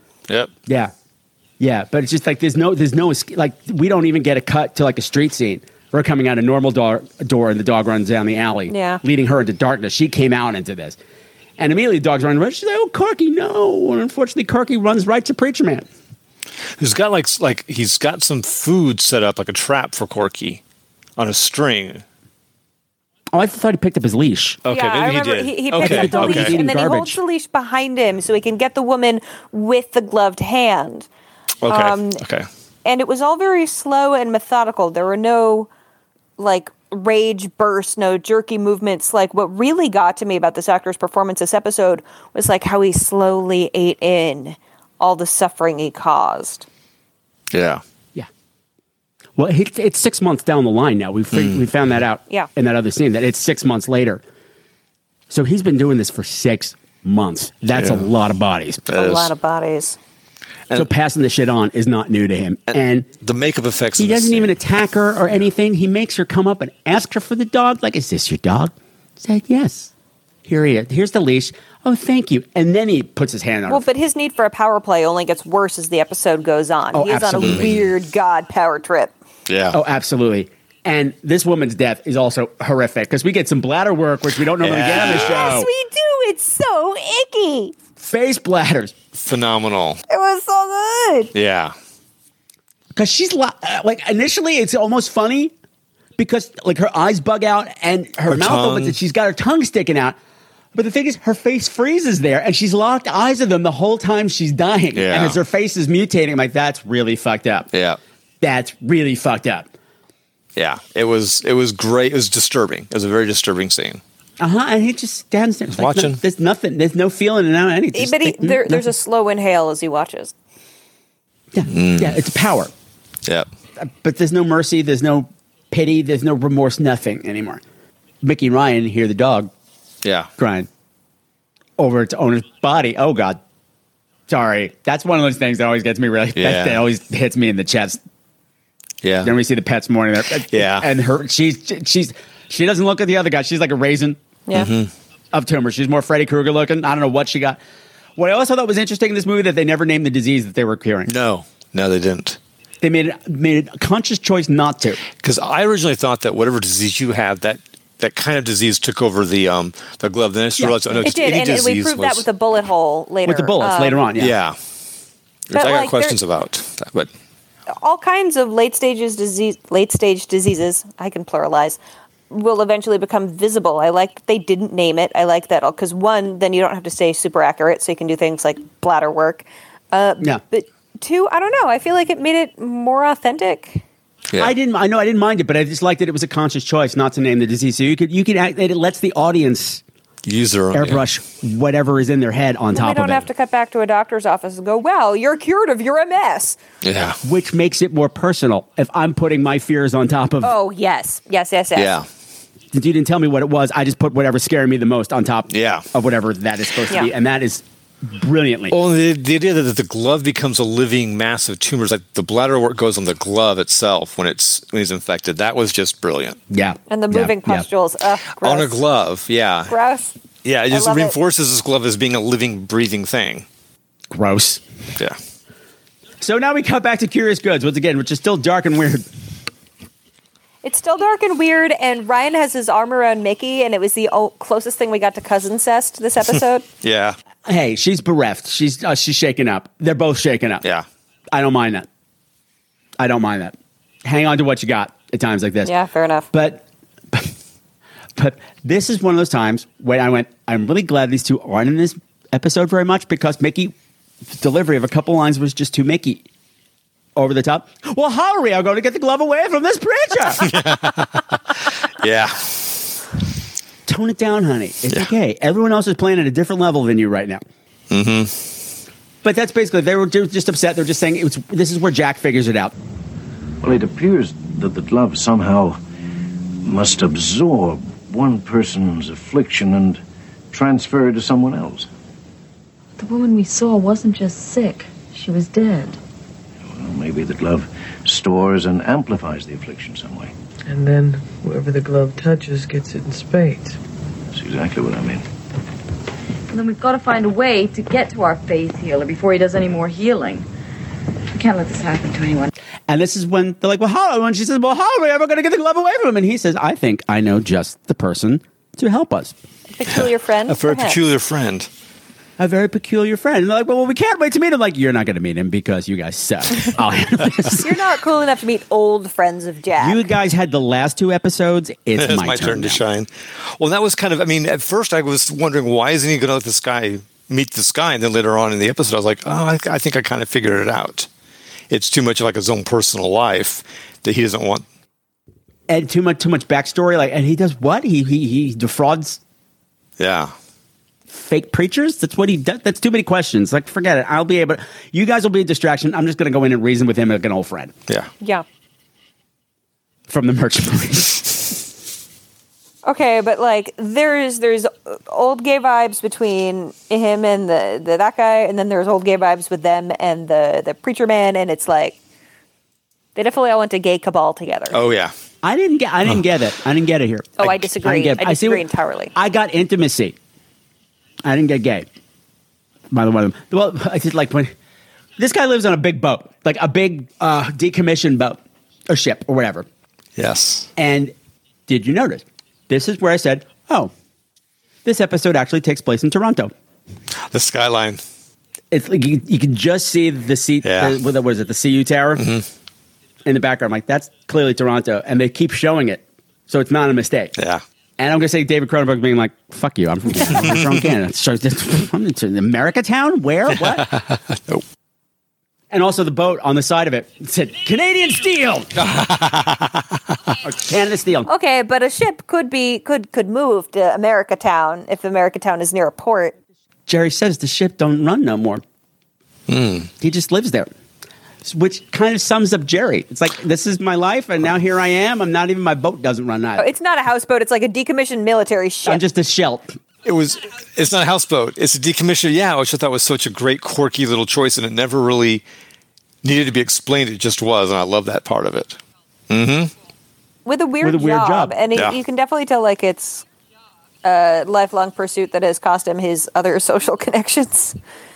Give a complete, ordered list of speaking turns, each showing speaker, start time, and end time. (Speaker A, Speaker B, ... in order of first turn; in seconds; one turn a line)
Speaker A: 0.7-0.9
Speaker A: 1.6-11.0
Speaker B: 8.7-9.0
Speaker A: 11.6-15.9
Speaker C: 16.8-20.6
Speaker C: 21.2-22.0
Speaker A: 23.3-24.6
Speaker C: 24.6-26.6
Speaker B: 24.7-31.1
Speaker A: 25.8-27.2
Speaker C: 31.6-32.5
Speaker B: 31.7-32.2
Speaker B: 32.9-35.7
Speaker B: 36.4-46.7
Speaker C: 47.5-47.8
Speaker A: 49.4-54.2
Speaker C: 51.3-51.6
Speaker A: 55.3-58.9
Speaker C: 57.7-58.0
Speaker C: 58.9-59.3
Speaker B: 58.9-60.0
Speaker A: 60.7-63.1
Speaker C: 62.7-64.5
Speaker A: 64.0-69.9
Speaker A: 70.5-73.8
Speaker B: 73.7-79.1
Speaker A: 76.9-77.9
Speaker C: 77.4-77.7
Speaker C: 79.5-79.8
Speaker A: 79.7-85.7
Speaker C: 84.6-85.5
Speaker B: 84.9-87.7
Speaker A: 88.0-89.0
Speaker C: 89.2-90.0
Speaker B: 90.1-91.3
Speaker C: 91.3-91.7
Speaker A: 92.9-95.5
Speaker A: 96.2-100.2
Speaker C: 98.3-99.0
Speaker A: 100.7-107.7
Speaker C: 105.0-105.4
Speaker C: 107.7-108.0
Speaker A: 108.4-109.7
Speaker C: 110.6-114.0
Speaker A: 114.4-118.9
Speaker C: 115.7-116.2
Speaker B: 117.9-120.3
Speaker A: 121.5-122.7
Speaker C: 121.7-122.2
Speaker A: 123.8-127.6
Speaker A: 128.2-129.5
Speaker C: 130.0-130.3
Speaker A: 130.4-130.7
Speaker A: 131.8-133.4
Speaker A: 134.3-138.0
Speaker C: 136.4-136.8
Speaker C: 139.0-139.3
Speaker A: 139.2-144.2
Speaker C: 140.5-140.9
Speaker C: 144.5-144.9
Speaker A: 145.3-147.6
Speaker A: 148.2-151.1
Speaker C: 151.1-152.4
Speaker A: 152.8-155.0
Speaker C: 155.2-162.2
Speaker A: 160.6-161.2
Speaker B: 161.0-164.1
Speaker A: 163.2-164.3
Speaker C: 164.2-164.6
Speaker C: 165.5-167.1
Speaker B: 165.5-166.2
Speaker B: 167.7-171.8
Speaker B: 172.3-183.8
Speaker A: 184.4-189.8
Speaker C: 190.2-191.0
Speaker A: 190.7-193.2
Speaker B: 192.7-196.6
Speaker C: 196.8-197.2
Speaker A: 197.2-200.5
Speaker B: 200.4-202.0
Speaker C: 201.8-202.1
Speaker A: 202.7-208.8
Speaker C: 205.5-205.8
Speaker C: 208.7-216.4
Speaker A: 216.5-217.7
Speaker B: 216.9-218.8
Speaker C: 218.4-219.7
Speaker B: 219.7-220.1
Speaker C: 220.4-223.5
Speaker B: 220.7-221.2
Speaker A: 224.1-224.6
Speaker A: 226.2-229.1
Speaker B: 230.6-236.7
Speaker C: 236.8-237.2
Speaker A: 237.5-240.6
Speaker A: 241.3-241.9
Speaker A: 243.0-245.7
Speaker B: 245.6-246.3
Speaker A: 246.3-247.3
Speaker A: 248.2-253.7
Speaker A: 254.3-256.2
Speaker A: 257.2-260.6
Speaker C: 260.4-261.4
Speaker C: 262.0-262.9
Speaker A: 263.9-267.4
Speaker C: 267.9-268.7
Speaker A: 269.2-272.7
Speaker D: 273.6-275.8
Speaker D: 276.6-281.9
Speaker E: 283.0-286.0
Speaker D: 286.6-290.3
Speaker F: 290.7-293.8
Speaker D: 294.3-295.2
Speaker E: 296.5-300.5
Speaker E: 301.3-302.5
Speaker A: 302.9-309.4
Speaker B: 309.7-311.0
Speaker C: 309.9-311.7
Speaker A: 312.4-317.7
Speaker B: 317.5-320.1
Speaker A: 319.8-322.8
Speaker C: 322.0-331.1
Speaker C: 331.7-334.6
Speaker A: 335.7-339.2
Speaker C: 340.0-340.3
Speaker A: 341.1-347.7
Speaker A: 350.1-351.6
Speaker B: 352.9-362.0
Speaker B: 363.2-364.8
Speaker C: 364.7-365.1
Speaker A: 365.4-370.2
Speaker B: 367.4-369.1
Speaker A: 371.2-371.9
Speaker A: 372.9-374.5
Speaker A: 375.2-379.7
Speaker C: 380.2-380.7
Speaker A: 380.8-381.1
Speaker A: 381.7-383.9
Speaker A: 384.9-386.5
Speaker C: 387.3-388.0
Speaker A: 388.7-392.3
Speaker C: 390.6-391.0
Speaker C: 392.2-392.4
Speaker A: 393.2-397.3
Speaker C: 397.4-397.6
Speaker A: 398.0-403.9
Speaker A: 405.7-408.7
Speaker C: 408.8-409.8
Speaker A: 410.4-411.3
Speaker B: 411.3-416.4
Speaker A: 416.9-418.6
Speaker C: 419.5-419.9
Speaker A: 420.0-420.7
Speaker A: 421.4-426.7
Speaker B: 426.6-429.0
Speaker A: 428.9-429.7
Speaker C: 430.1-435.4
Speaker C: 436.2-438.8
Speaker C: 439.3-439.7
Speaker B: 440.4-443.2
Speaker A: 440.8-441.6
Speaker B: 444.0-447.8